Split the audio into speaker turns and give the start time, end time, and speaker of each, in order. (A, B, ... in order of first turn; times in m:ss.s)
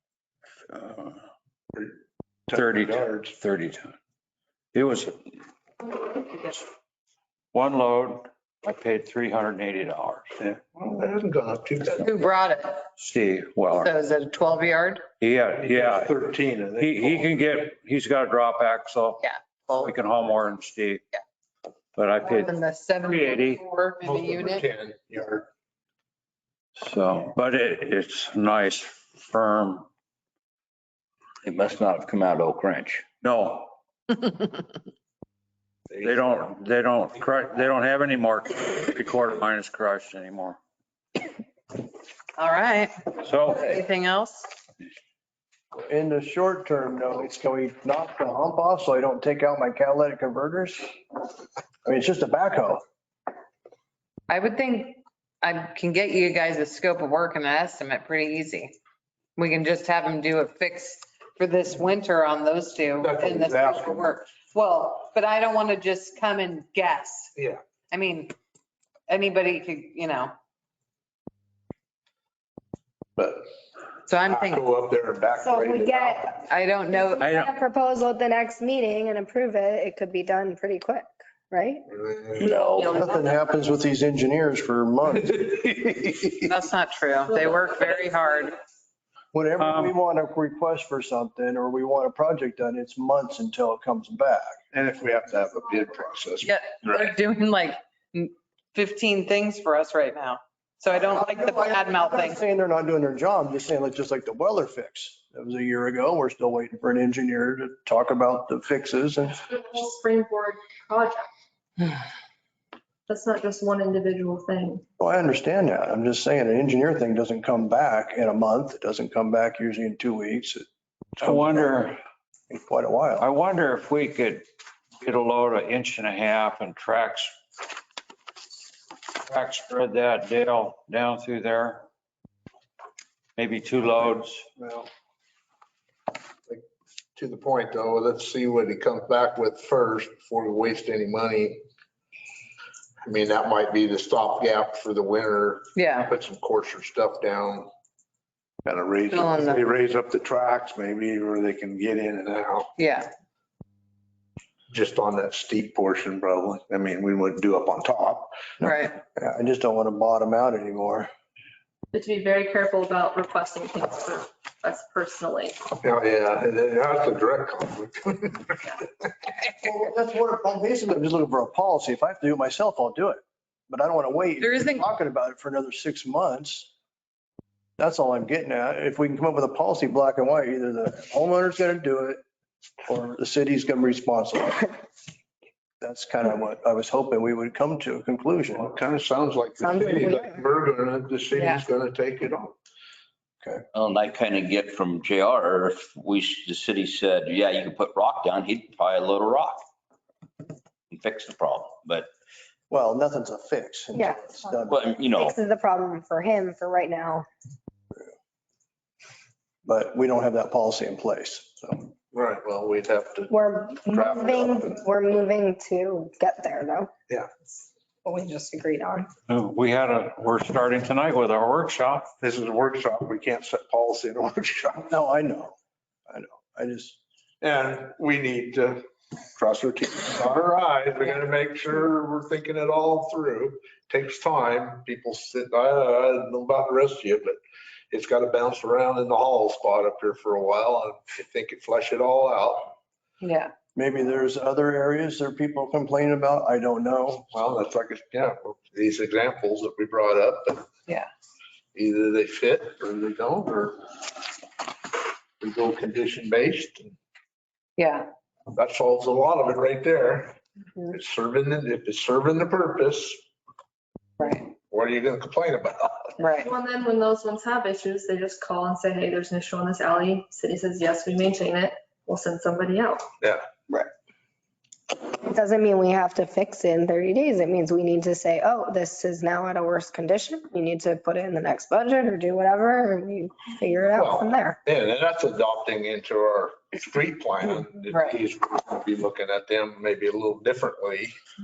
0:00.7-0:01.2 A
0:02.5-0:03.3 B
0:02.5-0:04.0 A
0:04.7-0:05.4 A
0:07.5-0:10.5 A
0:10.5-0:12.1 B
0:12.0-0:12.9 C
0:13.0-0:13.9 A
0:13.8-0:15.0 C
0:15.2-0:16.1 A
0:15.6-0:17.3 B
0:16.8-0:19.2 A
0:19.2-0:19.9 C
0:19.8-0:21.0 A
0:22.0-0:22.5 A
0:22.2-0:24.6 C
0:23.1-0:23.6 A
0:24.0-0:25.5 B
0:26.8-0:29.9 A
0:31.4-0:33.0 D
0:33.1-0:33.7 A
0:36.0-0:40.6 A
0:42.4-0:44.5 C
0:43.2-0:43.8 A
0:45.9-0:50.8 E
0:51.8-0:52.8 E
0:54.3-0:58.8 C
0:59.4-1:07.3 C
1:03.0-1:04.1 B
1:07.4-1:07.6 B
1:07.9-1:08.4 C
1:09.1-1:10.3 C
1:13.2-1:13.4 B
1:14.1-1:14.6 C
1:14.3-1:16.4 B
1:15.4-1:16.2 F
1:16.4-1:17.3 C
1:16.9-1:21.9 F
1:17.2-1:17.5 A
1:21.9-1:22.4 B
1:22.4-1:26.2 E
1:26.4-1:28.6 C
1:29.3-1:34.6 E
1:29.6-1:29.9 A
1:34.7-1:36.5 B
1:36.4-1:42.4 C
1:40.9-1:49.4 E
1:49.6-1:51.2 G
1:53.2-1:54.8 G
1:55.0-2:00.6 E
2:01.2-2:02.0 A
2:01.2-2:01.6 E
2:02.5-2:03.3 E
2:03.2-2:04.4 A
2:05.0-2:07.3 A
2:09.2-2:11.8 A
2:13.4-2:14.5 A
2:14.6-2:14.9 B
2:17.2-2:21.6 B
2:23.0-2:27.7 B
2:25.8-2:26.1 C
2:28.6-2:32.7 B
2:29.1-2:29.6 C
2:32.8-2:33.1 C
2:34.7-2:38.3 B
2:38.6-2:39.0 C
2:38.6-2:41.1 E
2:42.0-2:45.5 G
2:45.8-2:48.8 B
2:49.6-2:56.7 E
2:54.4-2:54.8 C
2:57.8-3:02.2 E
3:02.9-3:04.7 E
3:05.8-3:08.7 E
3:08.5-3:12.6 B
3:09.6-3:10.4 F
3:11.3-3:11.6 C
3:13.7-3:19.6 D
3:20.9-3:22.1 D
3:22.7-3:24.9 E
3:23.9-3:24.3 F
3:24.7-3:25.4 D
3:25.1-3:27.2 F
3:29.6-3:31.9 E
3:32.1-3:34.8 B
3:33.3-3:36.9 F
3:38.0-3:39.1 F
3:39.3-3:42.1 A
3:42.2-3:44.9 B
3:44.8-3:45.6 E
3:46.1-3:47.0 E
3:47.4-3:48.8 B
3:49.4-3:57.4 B
3:57.9-4:02.7 B
4:03.2-4:03.5 C
4:03.8-4:07.3 E
4:07.3-4:10.7 B
4:11.8-4:13.8 B
4:15.4-4:16.9 B
4:17.8-4:18.1 C
4:18.5-4:23.2 B
4:24.2-4:24.5 C
4:24.7-4:26.2 B
4:26.2-4:26.5 C
4:26.5-4:33.0 G
4:35.0-4:44.6 F
4:43.9-4:51.1 B
4:47.9-4:48.2 C